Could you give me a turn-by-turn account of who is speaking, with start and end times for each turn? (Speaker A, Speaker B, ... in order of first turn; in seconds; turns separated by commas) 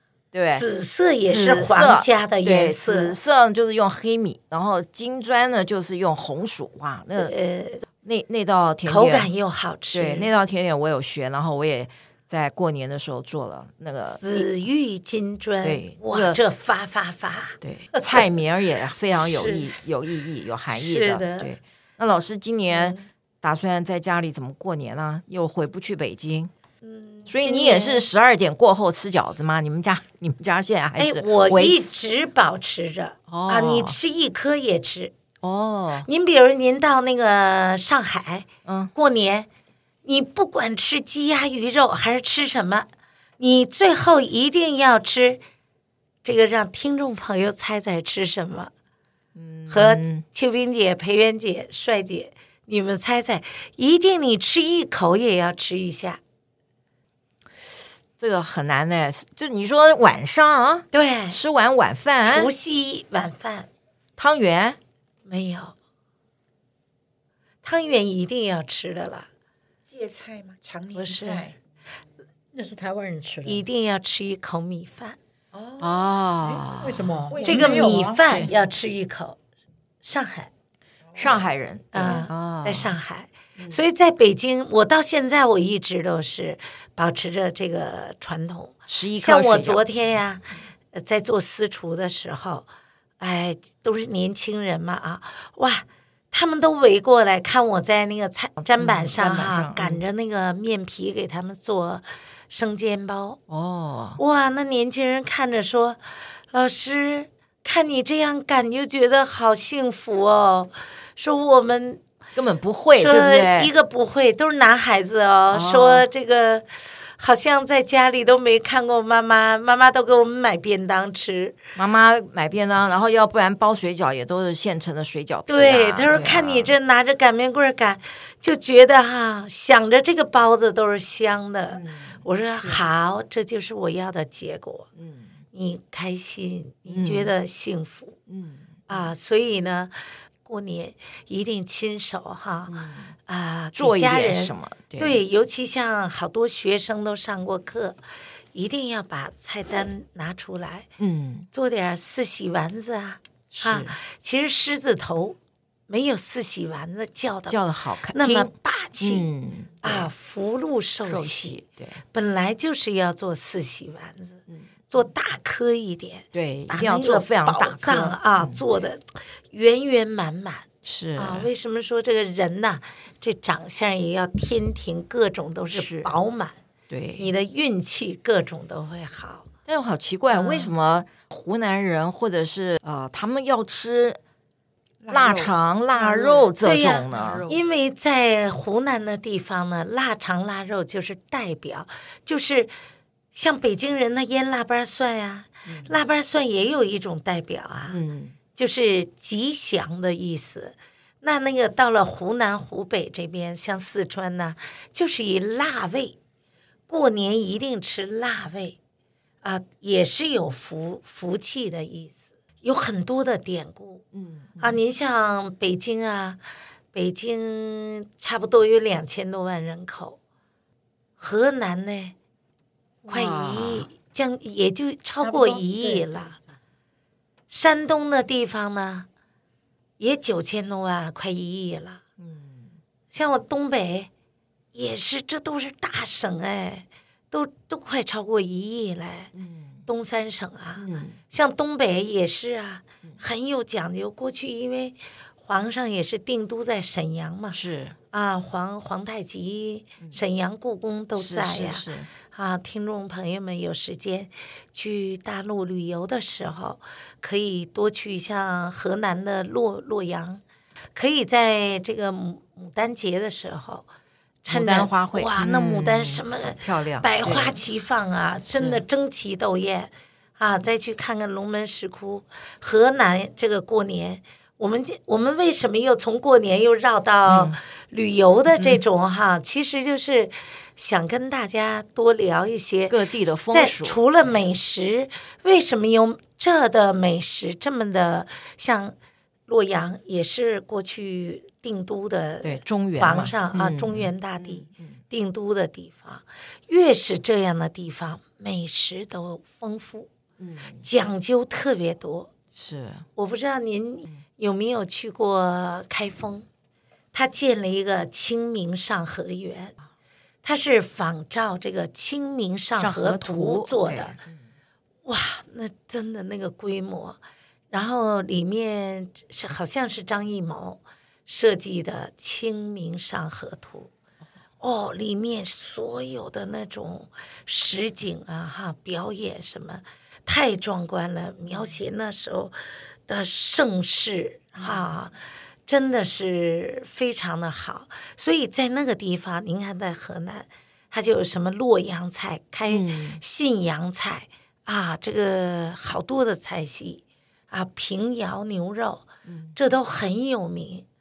Speaker A: 0.3-0.6, Speaker B: 0.5-3.1, Speaker A: 1.3-7.3, Speaker B: 7.2-7.8, Speaker A: 8.0-9.3, Speaker B: 8.8-10.3, Speaker A: 9.9-14.4, Speaker B: 14.1-18.2, Speaker A: 15.6-16.4, Speaker A: 17.6-26.5, Speaker B: 19.1-19.7, Speaker B: 20.7-21.5, Speaker B: 22.7-23.0, Speaker B: 26.8-28.1, Speaker A: 27.3-31.9, Speaker B: 31.0-35.1, Speaker A: 33.3-34.0, Speaker A: 35.4-36.1, Speaker B: 36.0-39.5, Speaker A: 38.6-38.9, Speaker B: 40.0-42.9, Speaker B: 43.4-45.4, Speaker B: 46.2-48.7, Speaker A: 49.3-50.2, Speaker B: 49.7-56.2, Speaker A: 58.2-62.5, Speaker B: 60.9-61.4, Speaker B: 62.2-63.7, Speaker A: 64.2-64.8, Speaker B: 65.3-65.7, Speaker B: 67.6-69.3, Speaker C: 69.8-71.6, Speaker B: 70.9-71.5, Speaker D: 72.5-73.6, Speaker B: 73.5-75.2, Speaker C: 75.5-76.6, Speaker A: 75.8-77.2, Speaker D: 76.8-78.4, Speaker C: 77.3-78.4, Speaker B: 77.5-79.4, Speaker B: 80.0-80.5, Speaker C: 81.1-81.5, Speaker A: 81.2-83.0, Speaker B: 81.9-92.7, Speaker A: 88.9-89.8, Speaker B: 93.2-103.4, Speaker A: 98.8-100.0, Speaker A: 103.5-104.2, Speaker B: 104.2-112.0, Speaker A: 112.3-113.7, Speaker B: 112.9-121.6, Speaker A: 115.5-116.0, Speaker A: 121.8-126.7, Speaker B: 125.5-134.9, Speaker A: 131.7-132.8, Speaker A: 135.0-135.4, Speaker B: 135.5-138.2, Speaker A: 136.9-137.3, Speaker A: 138.3-139.1, Speaker B: 138.9-142.7, Speaker A: 142.7-143.1, Speaker B: 143.3-148.0, Speaker A: 143.7-145.2, Speaker B: 148.5-150.9, Speaker A: 151.0-151.5, Speaker B: 151.5-155.4, Speaker A: 153.5-153.9, Speaker B: 155.9-157.6, Speaker A: 157.5-160.1, Speaker B: 158.1-159.3, Speaker B: 159.8-161.6, Speaker A: 161.1-162.0, Speaker B: 162.1-176.6, Speaker A: 166.3-168.6, Speaker A: 170.8-171.5, Speaker A: 175.7-176.1, Speaker A: 176.9-177.3, Speaker B: 177.2-179.5, Speaker A: 179.7-184.2, Speaker B: 180.3-180.7, Speaker C: 185.0-185.5, Speaker A: 185.1-187.4, Speaker B: 186.0-192.7, Speaker C: 186.8-187.6, Speaker B: 193.3-198.0, Speaker A: 195.7-196.0, Speaker A: 197.9-198.3, Speaker B: 198.5-206.2, Speaker B: 206.9-208.8, Speaker B: 209.4-214.0, Speaker A: 214.1-214.8, Speaker B: 214.6-216.4, Speaker B: 216.9-220.2, Speaker B: 221.2-222.1, Speaker A: 223.1-223.9, Speaker B: 223.1-226.3, Speaker D: 225.2-226.6, Speaker B: 227.5-229.1, Speaker B: 230.0-232.0, Speaker A: 232.2-232.7, Speaker B: 233.1-234.1, Speaker B: 234.7-239.3, Speaker A: 239.3-239.8, Speaker B: 239.9-247.6, Speaker A: 240.8-241.2, Speaker A: 247.5-247.9, Speaker B: 248.1-260.4, Speaker A: 251.2-252.1, Speaker B: 260.9-263.9, Speaker B: 264.4-283.0, Speaker A: 264.5-267.6, Speaker A: 268.5-268.8, Speaker A: 277.3-277.6, Speaker A: 278.6-278.8, Speaker A: 282.9-284.0, Speaker B: 283.5-288.9, Speaker B: 289.5-300.1, Speaker A: 292.4-295.0, Speaker A: 300.4-300.9, Speaker B: 300.8-302.3, Speaker A: 302.5-303.1, Speaker B: 303.2-306.4, Speaker B: 307.1-309.7, Speaker B: 310.4-314.1, Speaker A: 312.8-314.4, Speaker B: 315.1-317.2, Speaker B: 317.7-323.9, Speaker B: 324.6-335.1, Speaker A: 334.6-334.9, Speaker B: 335.7-350.8, Speaker A: 342.7-343.2, Speaker A: 349.2-349.6